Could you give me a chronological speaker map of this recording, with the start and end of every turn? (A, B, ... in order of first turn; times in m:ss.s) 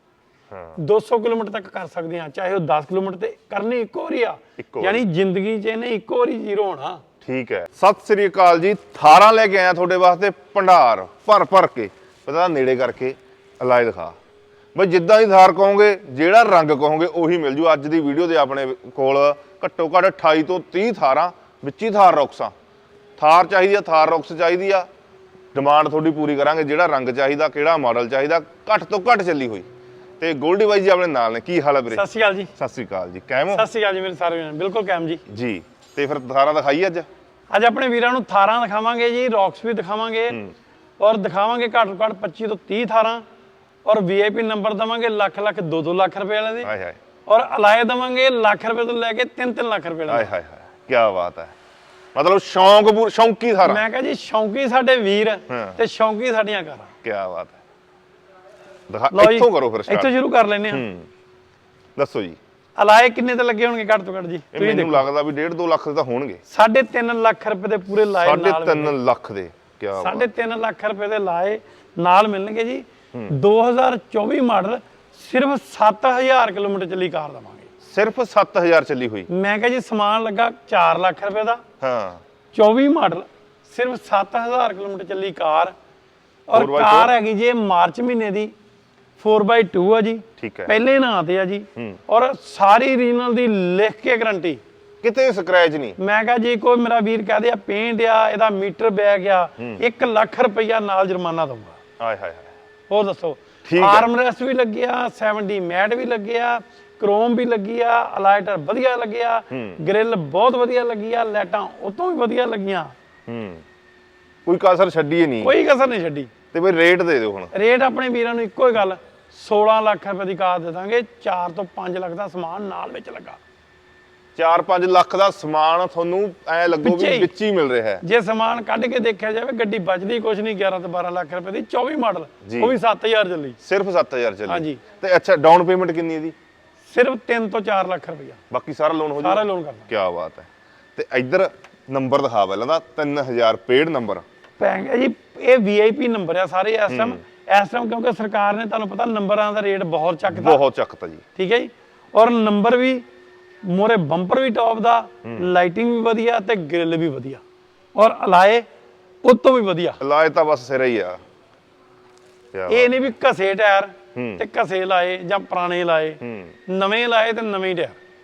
0:00.5-0:00.8 A
0:00.8-0:07.0 B
0:04.6-0:05.0 A
0:07.2-0:14.1 A
0:14.7-0:22.5 A
0:23.2-0:24.9 A
0:25.5-0:29.7 A
0:30.2-0:32.0 A
0:31.9-0:32.5 B
0:32.6-0:33.7 A
0:33.5-0:35.2 B
0:35.3-0:37.1 A
0:37.5-0:40.4 B
0:41.0-0:43.2 B
0:43.8-0:46.7 B
0:46.6-0:47.0 A
0:47.2-0:50.3 B
0:50.1-0:51.5 A
0:52.1-0:53.8 A
0:53.6-0:56.9 B
0:55.5-0:55.8 A
0:57.0-0:57.6 A
0:58.9-1:00.1 A
0:59.1-1:00.8 B
1:00.7-1:01.1 A
1:02.0-1:02.4 A
1:02.8-1:05.0 B
1:04.5-1:06.4 A
1:06.5-1:09.0 B
1:08.1-1:10.3 A
1:09.9-1:17.7 B
1:17.8-1:19.3 A
1:19.3-1:21.6 B
1:21.8-1:22.2 A
1:22.5-1:25.7 B
1:26.5-1:28.5 B
1:26.5-1:27.1 A
1:29.2-1:34.6 B
1:30.4-1:30.7 A
1:35.0-1:36.0 A
1:36.0-1:41.8 B
1:42.0-1:42.5 A
1:42.9-1:52.9 B
1:43.6-1:44.1 A
1:49.5-1:49.8 A
1:53.3-1:53.6 A
1:54.4-1:55.5 A
1:55.4-1:56.3 B
1:56.5-1:57.5 A
1:57.5-2:03.4 B
2:04.4-2:08.0 A
2:06.7-2:07.3 B
2:08.0-2:13.6 B
2:12.4-2:12.8 A
2:13.6-2:16.3 A
2:14.5-2:14.8 B
2:16.9-2:18.4 B
2:18.5-2:24.2 A
2:19.2-2:19.9 B
2:24.6-2:30.6 B
2:26.9-2:27.2 A
2:30.3-2:31.2 A
2:31.4-2:33.0 B
2:33.6-2:37.4 B
2:35.2-2:35.5 A
2:37.9-2:38.6 B
2:39.2-2:40.0 B
2:40.0-2:41.2 A
2:42.5-2:43.0 A
2:42.7-2:48.0 B
2:44.1-2:44.4 A
2:46.2-2:46.5 A